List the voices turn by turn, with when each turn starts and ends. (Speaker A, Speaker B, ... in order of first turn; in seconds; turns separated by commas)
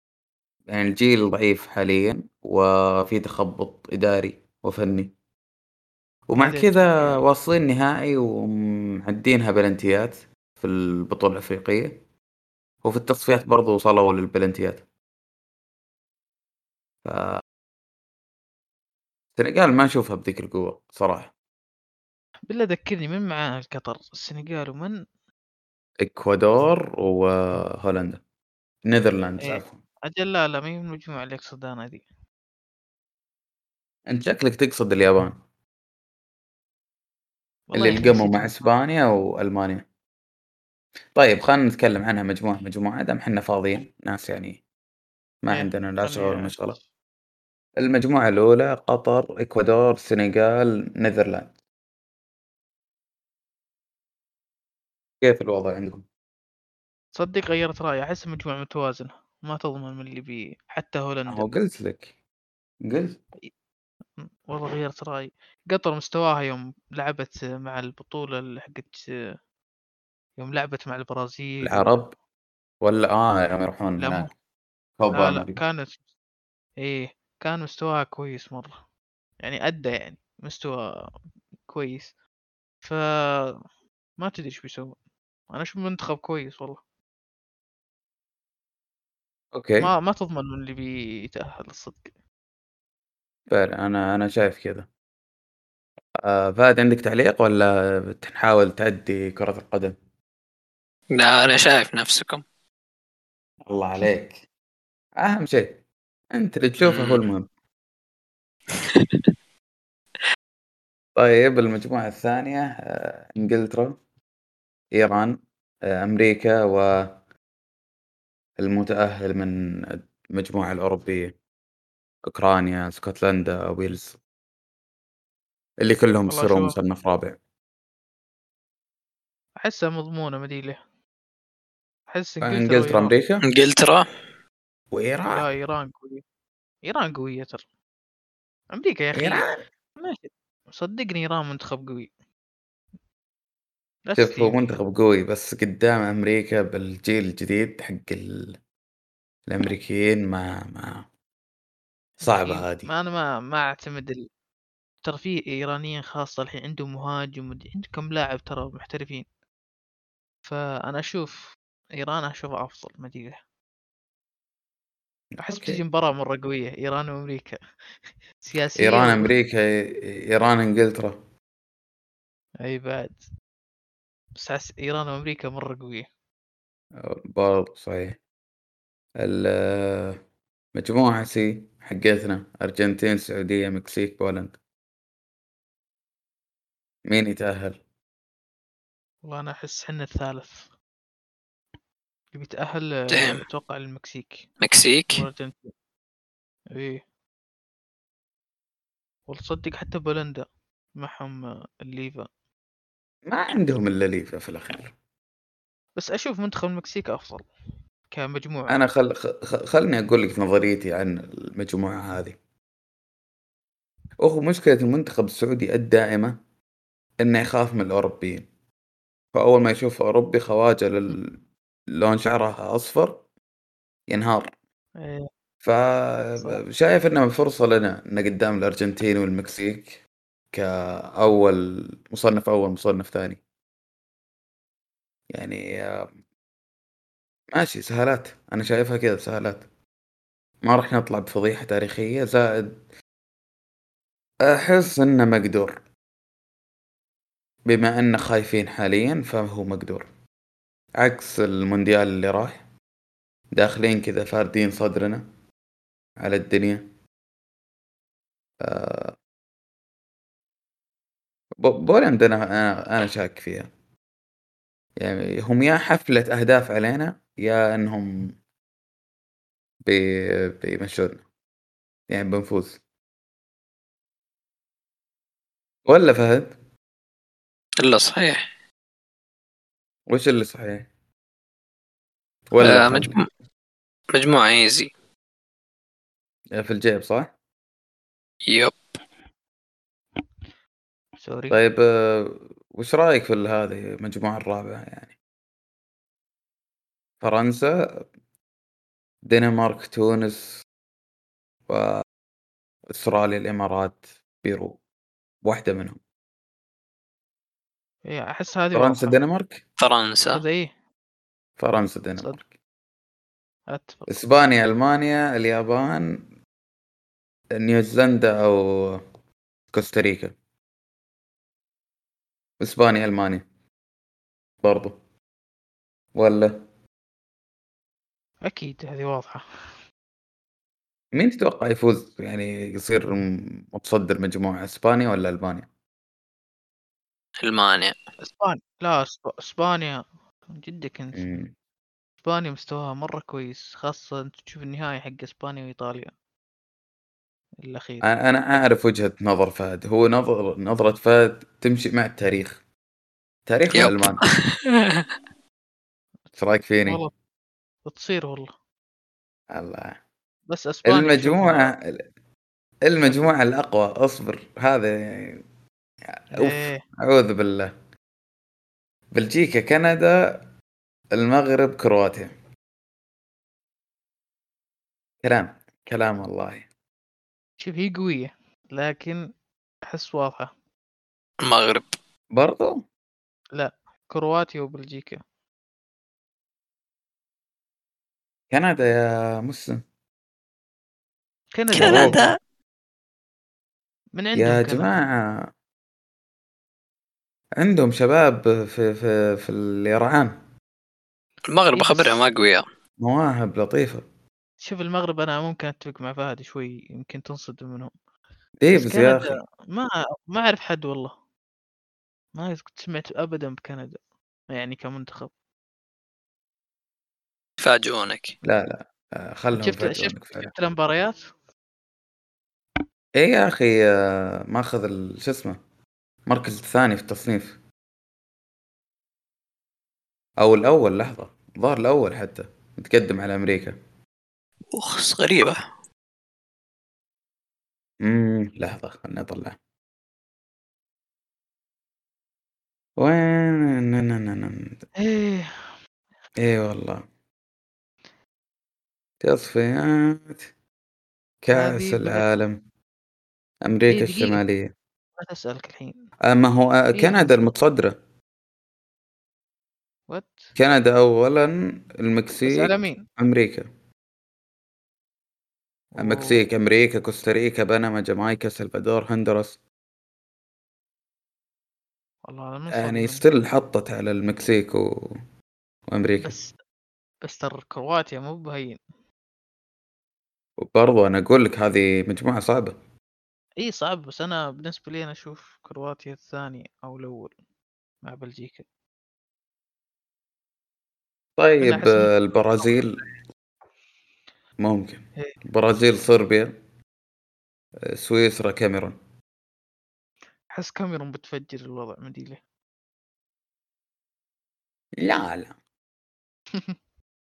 Speaker A: 0.7-5.1, Speaker A: 6.3-12.0, Speaker B: 6.4-7.2, Speaker A: 12.8-14.8, Speaker A: 17.0-17.4, Speaker A: 19.4-21.3, Speaker B: 22.5-24.9, Speaker A: 26.0-28.2, Speaker A: 28.9-29.8, Speaker B: 29.4-32.0, Speaker A: 34.1-35.4, Speaker B: 37.7-38.7, Speaker A: 37.7-39.8, Speaker A: 41.1-44.6, Speaker A: 45.4-46.8, Speaker B: 45.5-46.8, Speaker A: 47.8-51.5, Speaker A: 55.2-56.0, Speaker B: 57.1-61.5, Speaker A: 61.3-62.1, Speaker A: 62.8-63.2, Speaker B: 64.2-69.1, Speaker B: 70.4-71.9, Speaker A: 71.6-72.1, Speaker A: 72.8-74.3, Speaker B: 74.0-74.3, Speaker A: 75.0-75.6, Speaker B: 75.1-76.0, Speaker B: 76.8-78.8, Speaker B: 79.4-81.1, Speaker B: 81.7-82.1, Speaker B: 82.8-83.6, Speaker B: 84.2-85.0, Speaker B: 85.5-86.8, Speaker A: 89.5-89.9, Speaker B: 89.8-92.1, Speaker A: 93.5-94.9, Speaker A: 96.2-100.0, Speaker C: 101.1-102.4, Speaker A: 103.7-104.4, Speaker A: 105.2-105.8, Speaker A: 106.3-107.5, Speaker C: 106.8-107.2, Speaker C: 108.7-109.2, Speaker A: 111.2-114.0, Speaker A: 114.9-117.2, Speaker A: 118.6-121.3, Speaker A: 122.2-124.2, Speaker A: 125.8-127.4, Speaker B: 126.3-126.8, Speaker B: 129.6-130.8, Speaker B: 132.1-133.1, Speaker A: 132.4-133.4, Speaker C: 133.4-134.1, Speaker A: 134.9-135.5, Speaker B: 135.3-136.2, Speaker B: 136.8-137.6, Speaker B: 138.7-142.1, Speaker A: 139.1-139.6, Speaker B: 144.1-144.8, Speaker A: 144.2-148.6, Speaker A: 149.5-151.1, Speaker A: 152.2-152.9, Speaker B: 152.2-154.3, Speaker B: 155.0-159.2, Speaker B: 160.4-163.4, Speaker A: 165.4-165.8, Speaker B: 165.4-167.6, Speaker B: 168.4-169.3, Speaker A: 168.8-171.2, Speaker B: 172.6-173.2, Speaker B: 174.4-176.1, Speaker A: 177.0-178.2, Speaker A: 179.2-180.2, Speaker A: 180.7-184.6, Speaker A: 187.1-187.8, Speaker B: 189.2-190.7, Speaker B: 192.3-194.5, Speaker C: 193.1-193.4, Speaker C: 194.6-195.2, Speaker B: 195.1-195.7, Speaker B: 196.7-197.0, Speaker B: 199.3-200.4, Speaker B: 201.0-202.3, Speaker A: 203.3-204.9, Speaker B: 205.9-207.5, Speaker B: 208.1-208.8, Speaker A: 208.7-212.4, Speaker A: 214.2-216.4, Speaker A: 217.2-218.5, Speaker A: 219.3-221.4, Speaker A: 221.9-223.2, Speaker A: 224.1-224.5, Speaker B: 225.0-225.3, Speaker A: 225.6-230.0, Speaker A: 230.5-233.4, Speaker A: 235.3-236.1, Speaker A: 237.5-239.7, Speaker A: 240.6-242.8, Speaker A: 244.4-245.8, Speaker A: 247.7-250.1, Speaker A: 251.0-252.6, Speaker A: 253.5-255.2, Speaker A: 256.2-256.9, Speaker A: 258.6-259.2, Speaker A: 261.6-263.7, Speaker A: 265.0-268.4, Speaker A: 269.8-271.2, Speaker A: 272.1-272.8, Speaker A: 275.9-276.5, Speaker C: 277.8-278.4, Speaker A: 280.1-280.9, Speaker A: 282.5-283.1, Speaker C: 282.6-283.2, Speaker C: 284.1-284.9, Speaker A: 286.5-287.3, Speaker C: 288.5-288.8, Speaker B: 291.2-291.6, Speaker A: 291.5-295.1, Speaker A: 297.2-298.1, Speaker A: 299.2-300.6, Speaker A: 301.7-302.0, Speaker A: 302.9-304.8, Speaker A: 305.4-306.0, Speaker B: 308.1-309.2, Speaker A: 308.7-309.6, Speaker C: 309.8-310.4, Speaker B: 310.3-310.7, Speaker A: 311.6-312.5, Speaker B: 313.7-314.1, Speaker A: 314.1-316.2, Speaker A: 317.5-319.0, Speaker A: 319.7-320.3, Speaker A: 322.6-323.4, Speaker A: 324.6-325.0, Speaker A: 326.1-326.6, Speaker B: 328.4-329.4, Speaker A: 331.1-335.7, Speaker C: 337.4-337.9, Speaker B: 338.2-341.3, Speaker A: 341.1-341.5, Speaker B: 342.2-346.1, Speaker B: 347.6-348.1, Speaker A: 348.0-352.6, Speaker A: 353.5-354.2, Speaker C: 353.7-355.1, Speaker A: 356.4-357.0, Speaker B: 356.8-357.1, Speaker B: 357.9-358.5, Speaker A: 359.5-360.0, Speaker B: 360.5-361.7, Speaker A: 360.9-362.0, Speaker A: 362.9-365.4, Speaker A: 366.1-367.7, Speaker B: 366.3-366.8, Speaker A: 369.1-370.4, Speaker A: 371.1-372.3, Speaker A: 375.2-376.7, Speaker B: 377.6-379.2, Speaker B: 379.9-380.5, Speaker C: 381.4-381.9, Speaker A: 382.3-382.9, Speaker B: 383.6-385.2, Speaker A: 388.5-389.8, Speaker B: 391.5-392.3, Speaker A: 391.7-392.2, Speaker C: 391.7-392.4, Speaker B: 394.1-394.9, Speaker A: 394.4-395.5, Speaker A: 397.6-400.4, Speaker C: 401.5-402.6, Speaker B: 401.7-402.2, Speaker A: 403.0-404.0, Speaker B: 404.6-407.9, Speaker A: 408.6-409.4, Speaker B: 408.7-411.1, Speaker B: 412.3-414.0, Speaker B: 414.5-415.3, Speaker C: 417.6-418.3, Speaker A: 418.4-420.5, Speaker B: 419.5-421.3, Speaker A: 423.2-425.6, Speaker A: 426.2-427.6, Speaker A: 430.4-433.8, Speaker C: 434.7-435.6, Speaker A: 438.0-439.6, Speaker A: 443.0-444.8, Speaker B: 445.0-445.7, Speaker A: 446.4-447.0, Speaker A: 449.2-450.5, Speaker A: 451.4-452.6, Speaker B: 451.5-452.3, Speaker A: 453.6-454.7, Speaker B: 453.9-454.4, Speaker B: 455.2-456.0, Speaker A: 456.2-458.0, Speaker B: 456.9-457.5, Speaker B: 460.1-460.5, Speaker A: 460.6-463.7, Speaker B: 462.4-463.1, Speaker B: 465.9-466.4, Speaker A: 466.0-469.6, Speaker B: 472.2-473.3, Speaker A: 472.7-475.2, Speaker A: 475.9-476.3, Speaker B: 476.2-476.5, Speaker B: 477.2-478.8, Speaker A: 480.6-482.8, Speaker B: 483.6-487.3, Speaker B: 488.0-488.6, Speaker A: 491.4-493.0, Speaker B: 491.6-492.8, Speaker A: 494.6-496.6, Speaker A: 497.9-499.0, Speaker B: 500.5-502.4, Speaker A: 505.0-505.6